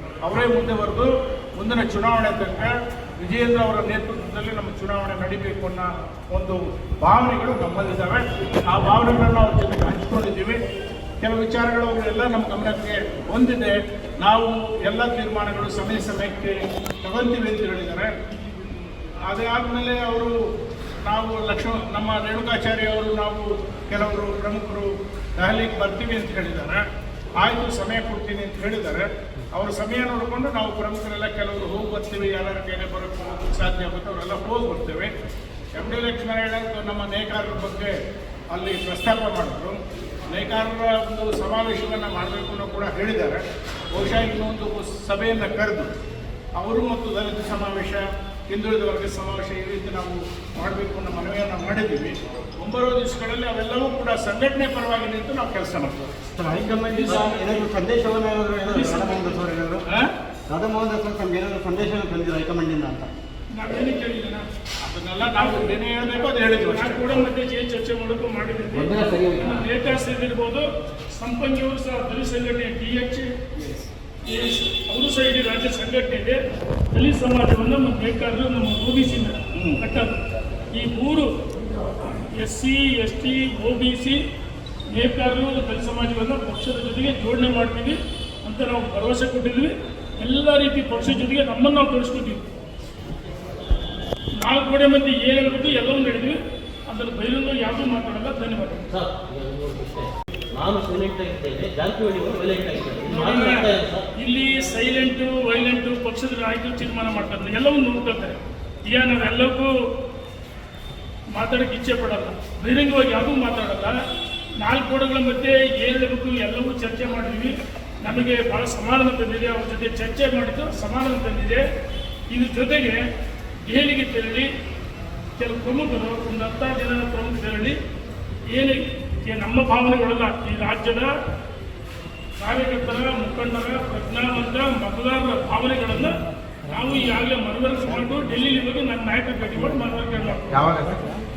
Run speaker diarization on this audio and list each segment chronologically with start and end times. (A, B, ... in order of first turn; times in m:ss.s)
0:00.2-0:10.6 A
0:11.2-0:18.1 A
0:19.3-0:20.3 A
0:21.0-0:26.8 A
0:27.4-0:35.1 A
0:35.8-0:37.9 A
0:38.5-0:39.8 A
0:40.3-0:43.4 A
0:43.9-0:45.9 A
0:46.6-0:56.2 A
0:56.3-0:59.8 B
0:56.9-0:57.6 C
0:58.7-0:59.4 C
1:00.5-1:03.1 B
1:03.6-1:04.4 C
1:04.8-1:07.3 A
1:05.2-1:05.7 C
1:06.5-1:10.6 C
1:11.2-1:13.3 C
1:13.6-1:13.9 A
1:14.3-1:16.4 C
1:16.9-1:20.2 C
1:19.5-1:19.8 A
1:20.7-1:21.3 C
1:22.0-1:24.2 C
1:24.9-1:32.4 C
1:34.4-1:38.9 C
1:38.9-1:44.1 D
1:43.1-1:49.7 C
1:51.3-1:53.9 C
1:54.6-2:01.6 C
2:02.3-2:03.0 C
2:03.7-2:04.5 C
2:05.4-2:07.8 C
2:08.5-2:11.1 C
2:12.4-2:20.8 C